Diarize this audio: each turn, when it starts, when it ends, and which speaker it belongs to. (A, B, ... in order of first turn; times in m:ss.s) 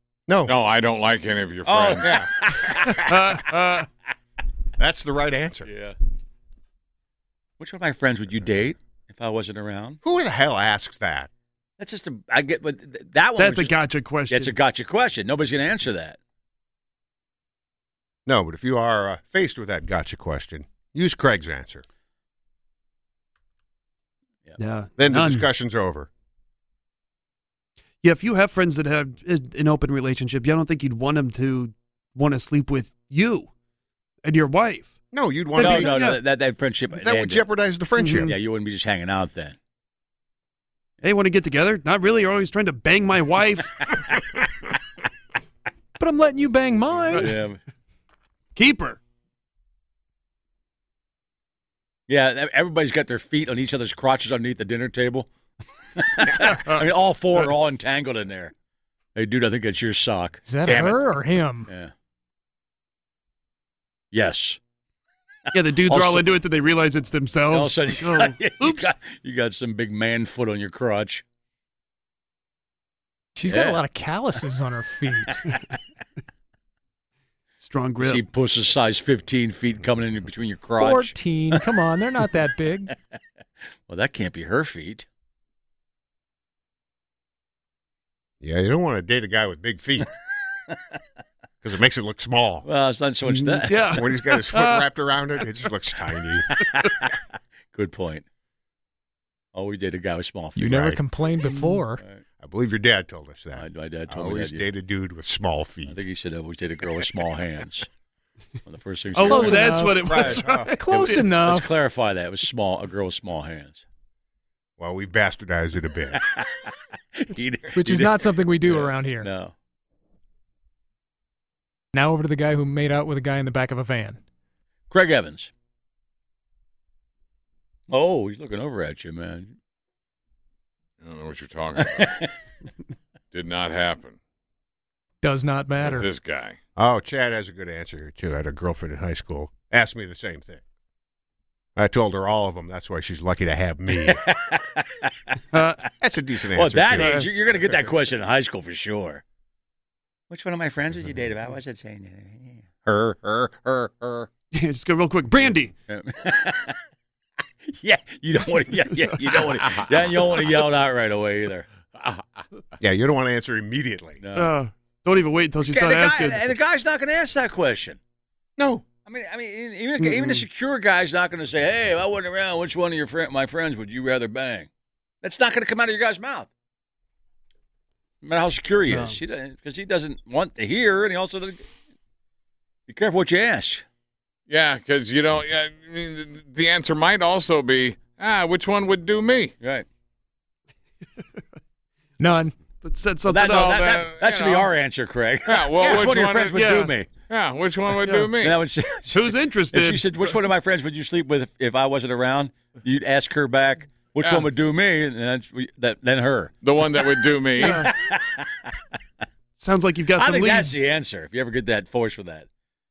0:00.3-0:00.5 A
0:00.5-0:02.2 B
0:01.6-0:03.0 C
0:01.9-0:02.3 A
0:02.8-0:03.3 A
0:03.0-0:03.9 D
0:04.8-0:05.7 A
0:05.6-0:05.9 C
0:07.6-0:10.0 C
0:10.0-0:11.3 A
0:11.8-0:13.8 C
0:13.4-0:14.5 D
0:14.3-0:16.2 C
0:18.2-0:21.8 A
0:24.6-0:25.5 D
0:25.0-0:26.1 A
0:28.0-0:33.5 D
0:34.2-0:34.9 D
0:35.1-0:36.0 A
0:35.6-0:36.2 D
0:35.6-0:37.5 C
0:36.9-0:38.3 A
0:38.0-0:38.4 D
0:38.1-0:39.5 C
0:41.0-0:43.7 D
0:46.0-0:47.3 E
0:47.1-0:47.6 C
0:48.5-0:49.0 D
0:52.1-0:55.3 C
0:56.0-0:58.5 C
0:56.4-0:56.8 D
0:59.2-1:01.0 C
1:00.4-1:01.7 E
1:01.7-1:01.9 C
1:04.1-1:04.6 C
1:05.5-1:08.9 D
1:05.8-1:06.4 C
1:07.5-1:11.2 C
1:13.4-1:15.4 E
1:13.5-1:13.8 C
1:17.6-1:18.2 D
1:18.0-1:21.6 C
1:20.8-1:22.9 E
1:23.9-1:25.0 C
1:28.4-1:30.1 A
1:31.6-1:32.6 A
1:32.6-1:34.0 C
1:33.2-1:34.8 D
1:33.9-1:36.5 A
1:36.6-1:37.1 C
1:37.7-1:38.2 C
1:39.5-1:41.0 C
1:40.6-1:42.0 E
1:42.0-1:42.2 C
1:42.4-1:46.0 A
1:43.5-1:44.7 C
1:45.8-1:47.9 C
1:48.6-1:49.8 C
1:49.1-1:51.3 D
1:49.2-1:51.8 E
1:50.0-1:50.7 A
1:51.4-1:53.8 C
1:54.8-1:56.2 A
1:56.3-1:59.5 C
1:57.7-1:59.3 E
2:01.9-2:04.2 E
2:04.9-2:05.5 C
2:07.9-2:09.5 C
2:11.0-2:12.2 B
2:11.8-2:12.3 C
2:13.3-2:14.2 B
2:15.2-2:16.1 E
2:15.8-2:16.6 B
2:16.8-2:20.6 A
2:21.8-2:24.2 A
2:23.9-2:25.0 C
2:25.5-2:25.8 D
2:26.0-2:27.8 A
2:26.5-2:29.2 C
2:27.0-2:27.3 D
2:30.3-2:32.6 C
2:32.8-2:34.3 A
2:34.5-2:35.7 D
2:35.9-2:36.8 C
2:37.7-2:41.7 C
2:42.0-2:42.4 B
2:42.8-2:44.2 A
2:44.2-2:44.5 C
2:44.3-2:46.4 D
2:45.6-2:48.0 C
2:48.6-2:48.8 A
2:49.0-2:54.7 C
2:50.0-2:50.4 D
2:55.2-2:56.5 C
2:58.2-3:01.6 C
2:58.9-2:59.2 D
3:02.9-3:03.8 C
3:04.5-3:09.5 B
3:09.6-3:09.8 C
3:12.2-3:12.5 E
3:12.8-3:13.9 D
3:13.3-3:17.1 C
3:13.6-3:14.7 B
3:15.4-3:18.5 B
3:15.8-3:16.1 A
3:16.6-3:16.9 D
3:18.0-3:18.3 D
3:18.4-3:28.7 C
3:19.1-3:20.0 D
3:24.2-3:24.5 B
3:26.6-3:27.8 B
3:27.6-3:27.9 D
3:29.6-3:30.8 D
3:30.1-3:32.5 C